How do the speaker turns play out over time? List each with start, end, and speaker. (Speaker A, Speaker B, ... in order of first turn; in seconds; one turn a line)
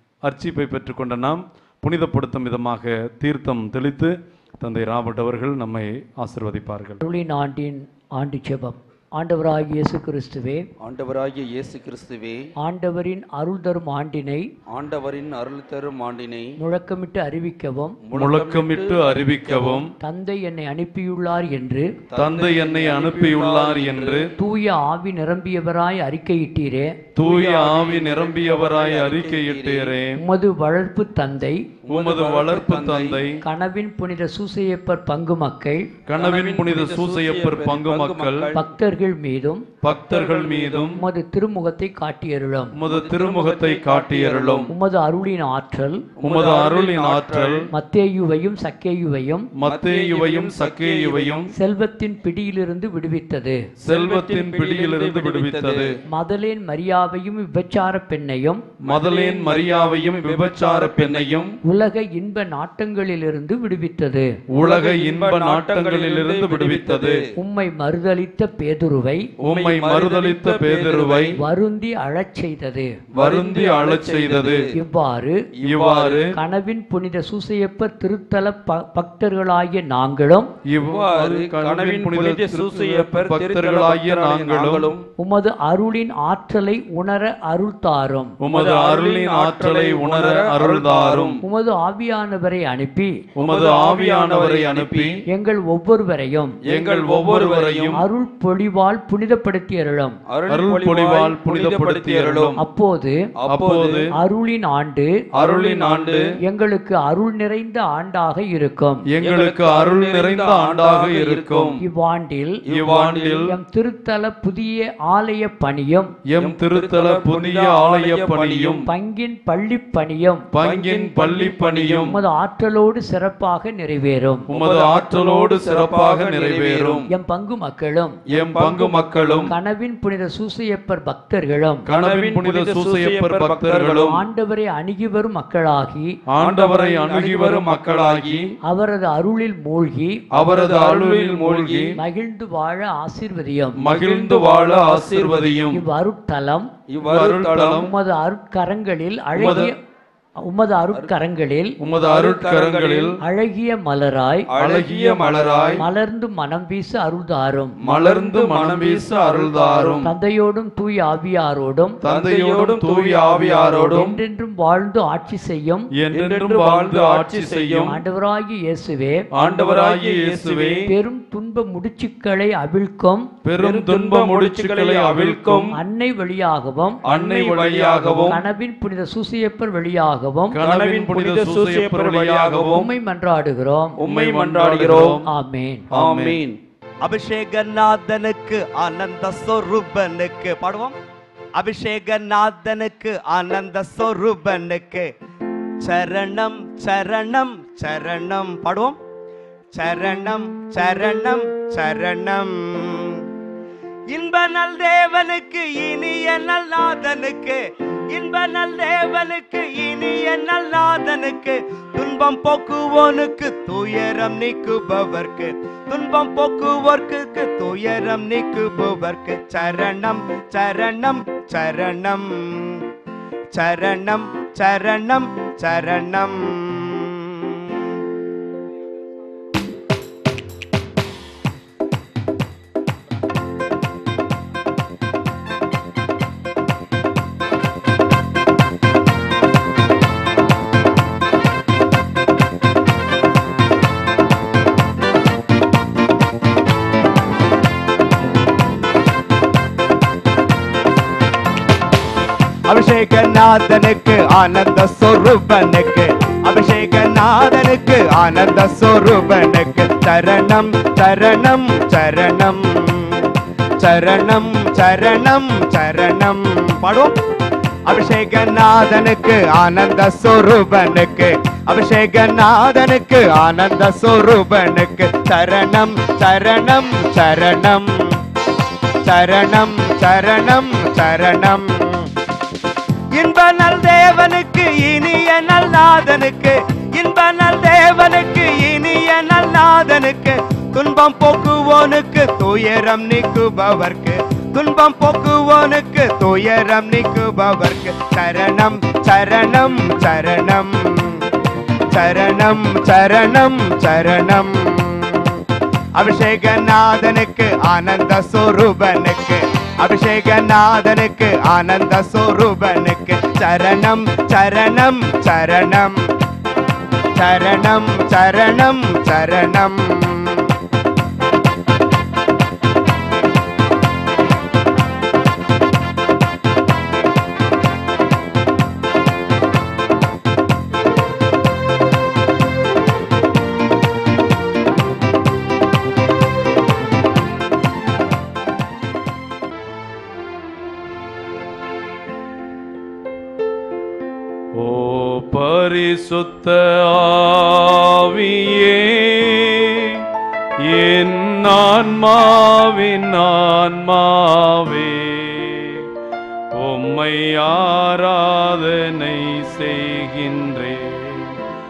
Speaker A: 0.2-7.0
Speaker B: 7.0-10.7
Speaker C: 10.8-12.4
Speaker B: 12.6-14.5
Speaker C: 14.7-16.5
Speaker B: 16.6-17.9
Speaker C: 18.0-19.9
Speaker A: 18.1-19.9
Speaker B: 20.0-21.9
Speaker C: 22.1-24.3
Speaker A: 22.1-24.3
Speaker B: 24.4-27.0
Speaker A: 27.1-30.2
Speaker C: 27.2-30.0
Speaker B: 30.1-31.7
Speaker C: 31.8-33.2
Speaker A: 31.9-33.4
Speaker B: 33.4-35.9
Speaker A: 36.1-38.5
Speaker C: 36.1-38.6
Speaker B: 38.5-39.7
Speaker A: 39.8-41.0
Speaker C: 39.9-40.9
Speaker B: 40.9-42.8
Speaker A: 42.7-44.7
Speaker C: 42.8-44.7
Speaker B: 44.7-46.1
Speaker C: 46.2-47.7
Speaker A: 46.2-47.7
Speaker B: 47.7-49.5
Speaker A: 49.5-51.5
Speaker C: 49.6-51.5
Speaker B: 51.5-53.6
Speaker A: 53.8-55.9
Speaker C: 53.9-56.0
Speaker B: 56.1-58.6
Speaker A: 58.8-61.5
Speaker C: 58.8-61.6
Speaker B: 61.6-64.3
Speaker A: 64.5-67.2
Speaker C: 64.6-67.3
Speaker B: 67.4-69.3
Speaker C: 69.4-71.4
Speaker A: 69.4-71.4
Speaker B: 71.3-73.0
Speaker C: 73.1-74.7
Speaker A: 73.2-74.6
Speaker B: 74.7-75.4
Speaker C: 75.6-76.3
Speaker A: 75.7-76.3
Speaker B: 76.3-80.5
Speaker A: 80.7-84.9
Speaker C: 80.8-85.0
Speaker B: 85.2-88.3
Speaker A: 88.4-91.4
Speaker C: 88.5-91.4
Speaker B: 91.4-93.2
Speaker A: 93.3-95.1
Speaker C: 93.4-95.2
Speaker B: 95.3-96.6
Speaker C: 96.6-98.0
Speaker A: 96.7-98.0
Speaker B: 97.9-100.2
Speaker C: 100.3-102.5
Speaker A: 100.5-102.6
Speaker B: 102.6-103.2
Speaker C: 103.4-104.1
Speaker A: 103.5-104.1
Speaker B: 104.1-105.1
Speaker C: 105.4-106.3
Speaker A: 105.4-106.2
Speaker B: 106.4-109.1
Speaker A: 109.1-111.8
Speaker C: 109.2-111.8
Speaker B: 111.8-112.6
Speaker C: 112.7-113.5
Speaker A: 112.7-113.5
Speaker B: 113.4-116.1
Speaker A: 116.3-118.9
Speaker C: 116.3-118.9
Speaker B: 118.8-120.5
Speaker A: 120.5-122.2
Speaker C: 120.6-122.2
Speaker B: 121.9-124.5
Speaker A: 124.5-127.0
Speaker C: 124.5-127.1
Speaker B: 127.1-128.2
Speaker C: 128.3-129.5
Speaker A: 128.3-129.5
Speaker B: 129.5-131.8
Speaker C: 131.9-134.2
Speaker A: 131.9-134.2
Speaker B: 134.0-136.2
Speaker A: 136.3-138.5
Speaker C: 136.4-138.6
Speaker B: 138.6-140.2
Speaker A: 140.3-141.9
Speaker C: 140.3-142.0
Speaker B: 141.9-143.8
Speaker A: 143.8-145.8
Speaker C: 143.8-145.7
Speaker B: 145.7-146.7
Speaker C: 146.9-147.9
Speaker A: 147.0-147.9
Speaker B: 147.7-149.8
Speaker C: 149.3-149.7
Speaker B: 150.4-151.8
Speaker A: 151.8-153.2
Speaker C: 151.9-153.2
Speaker B: 153.2-154.5
Speaker C: 154.5-155.8
Speaker A: 154.6-155.8
Speaker B: 155.8-157.7
Speaker C: 157.8-160.1
Speaker A: 157.8-160.1
Speaker B: 160.0-162.0
Speaker A: 162.0-164.1
Speaker C: 162.0-164.2
Speaker B: 164.0-165.9
Speaker A: 166.0-167.9
Speaker C: 166.1-168.0
Speaker B: 167.8-169.3
Speaker A: 169.4-170.8
Speaker C: 169.4-170.9
Speaker B: 170.8-173.3
Speaker A: 173.4-175.7
Speaker C: 173.6-175.8
Speaker B: 175.7-177.0
Speaker C: 177.0-178.4
Speaker A: 177.1-178.4
Speaker B: 178.3-180.6
Speaker A: 180.5-182.9
Speaker C: 180.6-182.9
Speaker B: 182.7-184.0
Speaker C: 184.0-185.2
Speaker A: 184.0-185.2
Speaker B: 185.2-185.8
Speaker A: 185.9-186.4
Speaker C: 185.9-186.6
Speaker D: 187.0-191.0
Speaker D: 191.5-195.1
Speaker D: 195.8-199.0
Speaker D: 199.7-203.2
Speaker D: 204.1-222.8
Speaker D: 223.5-228.0
Speaker D: 252.7-263.3
Speaker D: 263.8-267.1
Speaker D: 267.9-278.2
Speaker D: 279.0-282.1
Speaker D: 283.1-301.3
Speaker D: 301.9-305.4
Speaker D: 305.9-316.1
Speaker D: 317.1-320.6
Speaker A: 344.6-350.0
Speaker A: 350.6-355.9
Speaker A: 356.6-361.4